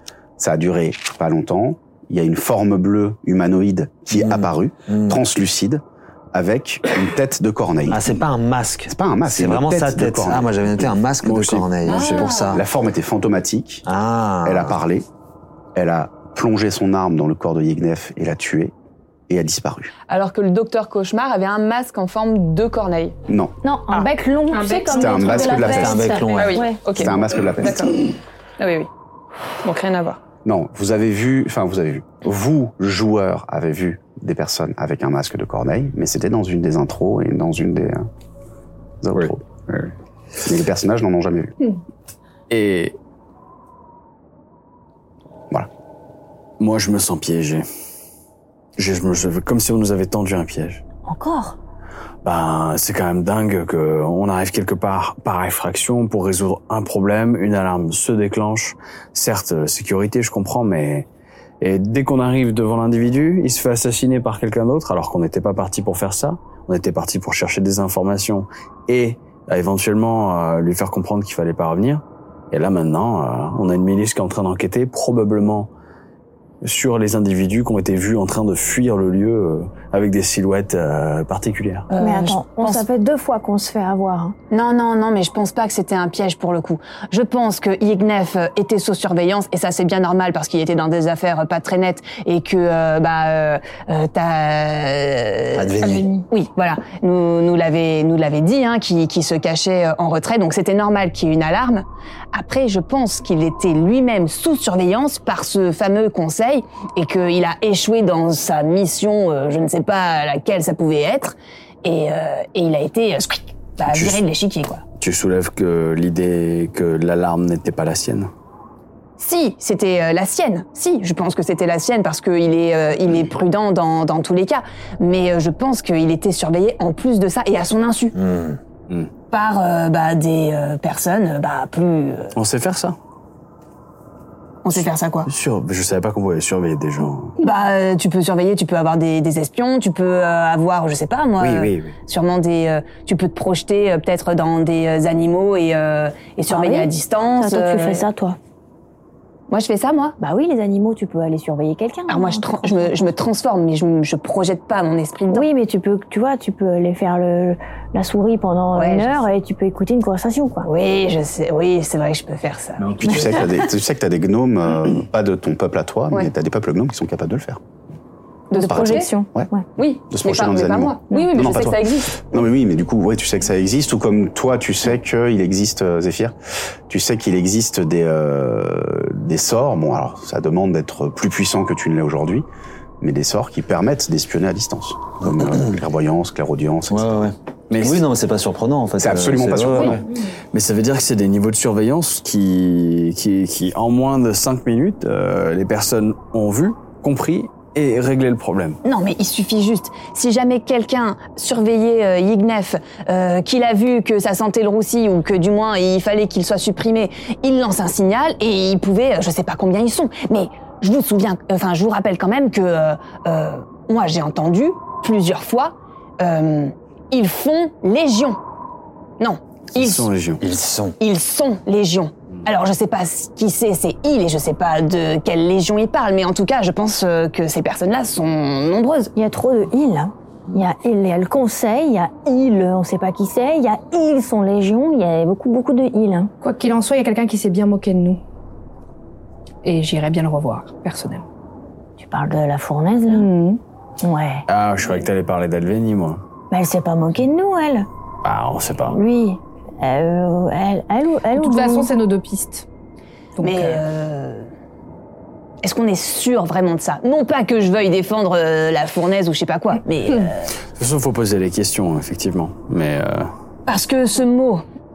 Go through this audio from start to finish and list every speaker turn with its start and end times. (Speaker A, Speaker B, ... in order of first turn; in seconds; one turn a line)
Speaker A: 0.4-8.0
Speaker B: 4.1-5.2
Speaker B: 7.9-12.6
Speaker A: 8.9-10.5
Speaker A: 11.3-13.8
Speaker C: 11.8-12.6
Speaker B: 13.9-14.8
Speaker A: 14.4-15.1
Speaker A: 15.7-18.7
Speaker A: 19.3-19.9
Speaker C: 20.1-23.2
Speaker A: 23.3-23.6
Speaker D: 23.6-26.8
Speaker C: 24.5-28.9
Speaker A: 24.9-26.1
Speaker B: 25.6-26.8
Speaker A: 26.9-27.9
Speaker B: 27.3-27.6
Speaker C: 29.6-30.2
Speaker A: 30.4-38.1
Speaker A: 39.0-39.4
Speaker E: 39.1-39.9
Speaker A: 40.4-41.5
Speaker E: 42.5-43.0
Speaker E: 46.6-47.6
Speaker E: 48.8-50.8
Speaker D: 51.1-51.6
Speaker E: 52.2-61.1
Speaker E: 61.6-75.7
Speaker E: 76.6-81.9
Speaker C: 81.9-82.8
Speaker D: 82.0-84.3
Speaker C: 84.5-114.8
Speaker B: 95.5-96.1
Speaker E: 113.9-114.2
Speaker E: 115.0-118.3
Speaker C: 119.2-128.2
Speaker B: 128.2-128.6
Speaker C: 129.3-132.3
Speaker E: 132.3-133.0
Speaker C: 134.6-135.3
Speaker E: 135.2-137.4
Speaker C: 137.4-148.1
Speaker E: 141.4-141.9
Speaker D: 146.5-148.4
Speaker C: 149.5-150.2
Speaker D: 150.2-153.1
Speaker C: 152.1-155.5
Speaker D: 155.3-160.7
Speaker C: 158.7-159.2
Speaker C: 160.6-163.3
Speaker E: 162.8-163.5
Speaker A: 163.0-167.6
Speaker C: 168.5-169.1
Speaker D: 168.5-169.6
Speaker A: 168.7-169.5
Speaker C: 169.8-172.4
Speaker A: 170.1-176.3
Speaker A: 176.9-182.4
Speaker A: 183.0-187.3
Speaker B: 186.9-190.0
Speaker E: 187.7-188.1
Speaker A: 189.0-190.0
Speaker E: 190.5-198.8
Speaker C: 198.8-218.4
Speaker C: 219.2-220.1
Speaker E: 219.7-220.4
Speaker B: 220.4-221.0
Speaker C: 221.0-229.1
Speaker D: 229.2-236.3
Speaker F: 236.4-238.2
Speaker F: 239.6-241.2
Speaker D: 242.0-243.3
Speaker F: 243.1-243.6
Speaker D: 244.0-244.4
Speaker E: 244.5-246.2
Speaker D: 246.5-247.9
Speaker E: 248.2-249.0
Speaker D: 248.9-251.9
Speaker F: 251.3-252.7
Speaker F: 253.4-253.8
Speaker C: 253.4-254.5
Speaker C: 255.6-260.6
Speaker E: 260.7-263.3
Speaker C: 263.7-264.6